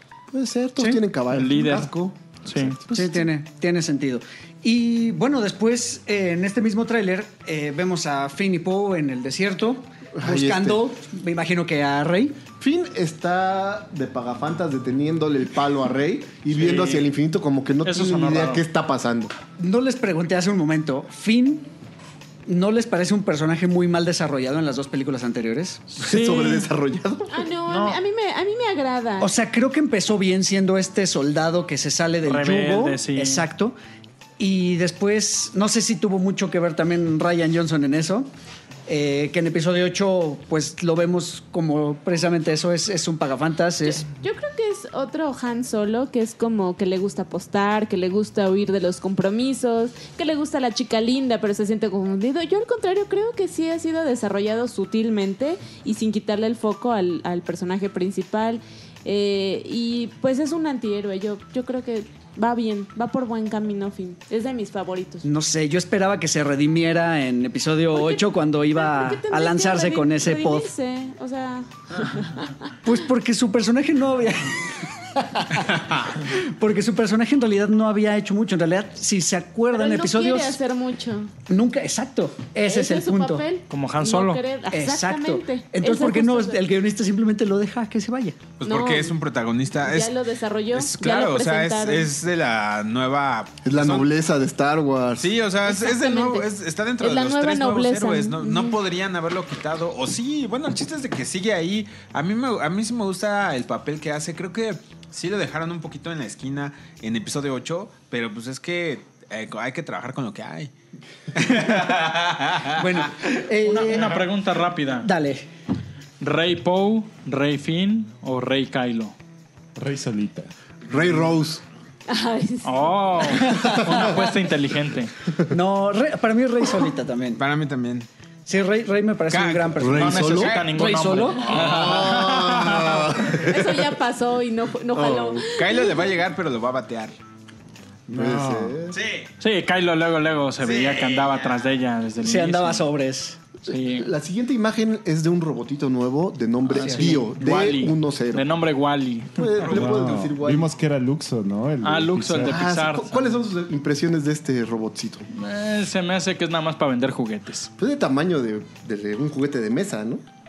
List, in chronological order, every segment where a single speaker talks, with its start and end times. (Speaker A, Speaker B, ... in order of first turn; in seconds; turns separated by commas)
Speaker A: 0.3-3.3, Speaker B: 1.3-1.9, Speaker B: 2.5-2.8, Speaker C: 2.9-12.4, Speaker A: 10.2-10.8, Speaker A: 12.6-19.3, Speaker B: 16.5-17.1, Speaker B: 17.8-18.6, Speaker C: 19.6-21.7, Speaker C: 22.4-25.9, Speaker A: 26.0-27.4, Speaker B: 26.0-26.7, Speaker D: 27.3-29.3, Speaker B: 27.7-28.0, Speaker C: 29.2-33.8, Speaker B: 32.2-33.5, Speaker C: 34.4-38.3, Speaker C: 38.9-44.0, Speaker D: 43.8-65.2, Speaker C: 65.2-70.7, Speaker D: 67.9-72.5, Speaker C: 72.8-74.6, Speaker C: 75.1-80.6, Speaker D: 79.7-81.3, Speaker C: 81.5-83.5, Speaker D: 82.6-86.6, Speaker B: 83.7-84.4, Speaker C: 84.7-88.5, Speaker E: 88.6-90.1, Speaker D: 88.6-89.1, Speaker D: 89.8-92.1, Speaker E: 90.7-94.1, Speaker A: 93.6-95.4, Speaker E: 95.2-110.7, Speaker D: 95.6-96.5, Speaker D: 97.0-98.8, Speaker E: 111.3-113.3, Speaker C: 112.7-114.3, Speaker B: 113.6-115.1, Speaker C: 114.9-115.5, Speaker B: 116.2-119.1, Speaker F: 119.8-121.0, Speaker A: 120.9-121.6, Speaker D: 122.1-123.3, Speaker B: 122.6-125.1, Speaker C: 123.4-124.1, Speaker A: 123.5-124.1, Speaker C: 125.5-127.4, Speaker E: 127.4-128.1, Speaker C: 128.4-131.6, Speaker E: 129.3-130.7, Speaker A: 129.8-130.6, Speaker B: 130.0-133.0, Speaker E: 131.4-132.0, Speaker A: 131.5-133.9, Speaker D: 133.4-136.1, Speaker A: 134.9-135.4, Speaker E: 135.4-137.2, Speaker A: 138.1-139.0, Speaker F: 138.1-138.8, Speaker E: 138.9-139.3, Speaker B: 139.4-142.9, Speaker E: 140.6-141.7, Speaker C: 142.2-143.5, Speaker A: 143.6-148.5, Speaker B: 143.7-144.1, Speaker B: 146.7-149.9, Speaker C: 146.8-147.3, Speaker A: 149.4-150.7, Speaker F: 149.7-152.6, Speaker B: 151.8-153.2, Speaker A: 152.4-155.3, Speaker B: 155.3-157.7, Speaker A: 157.8-160.2